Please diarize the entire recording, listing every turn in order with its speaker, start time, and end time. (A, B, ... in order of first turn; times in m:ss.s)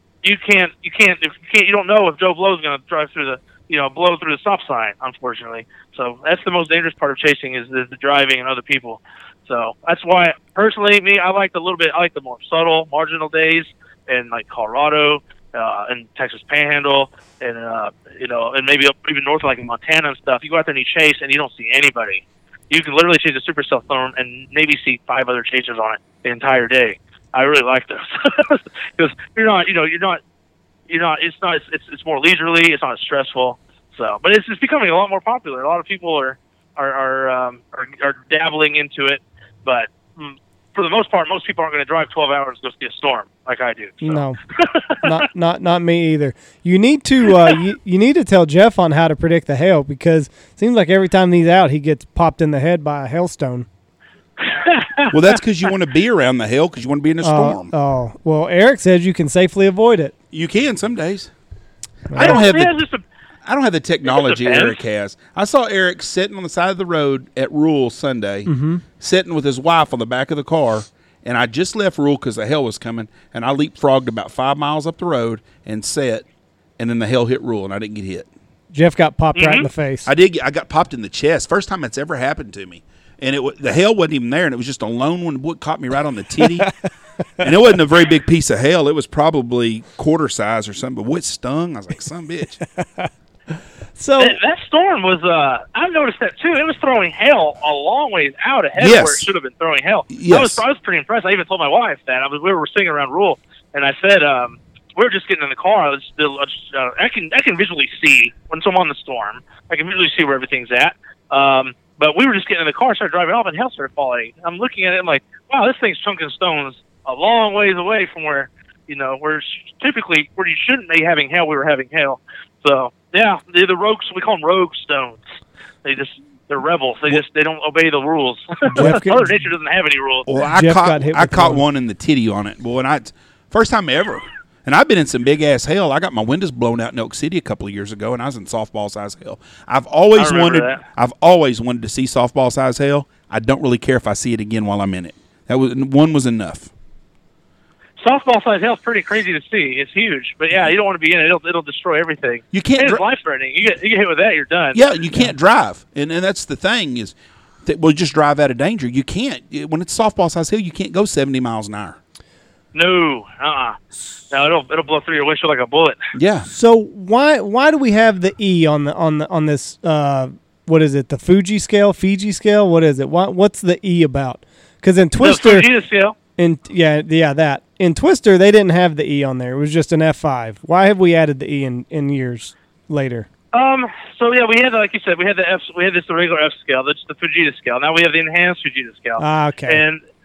0:00.2-0:30.2 A
0:30.9-0:45.1 A
0:44.0-0:44.4 B
0:45.0-0:53.7 B
0:54.4-0:55.2 A
0:55.1-0:57.7 C
0:57.2-1:00.1 B
1:00.3-1:01.3 C
1:02.1-1:02.4 B
1:02.1-1:02.7 C
1:02.2-1:03.0 A
1:03.4-1:16.2 C
1:04.1-1:04.8 A
1:08.5-1:08.8 B
1:16.8-1:18.3 C
1:18.7-1:20.1 B
1:19.4-1:19.7 A
1:20.0-1:26.7 C
1:27.4-1:32.6 C
1:32.8-1:33.1 B
1:33.9-1:34.4 B
1:34.2-2:05.2 A
1:38.8-1:39.3 C
1:40.1-1:40.6 C
2:05.8-2:10.3 A
2:08.8-2:09.3 B
2:10.3-2:26.7 C
2:10.4-2:11.6 B
2:20.2-2:20.8 A
2:28.0-2:34.8 A
2:32.5-2:33.0 C
2:34.7-2:42.0 C
2:42.7-2:46.0 A
2:46.1-2:46.5 C
2:46.5-2:55.6 B
2:55.2-2:56.2 A
2:56.4-3:03.3 B
3:03.5-3:10.0 A
3:09.2-3:09.8 B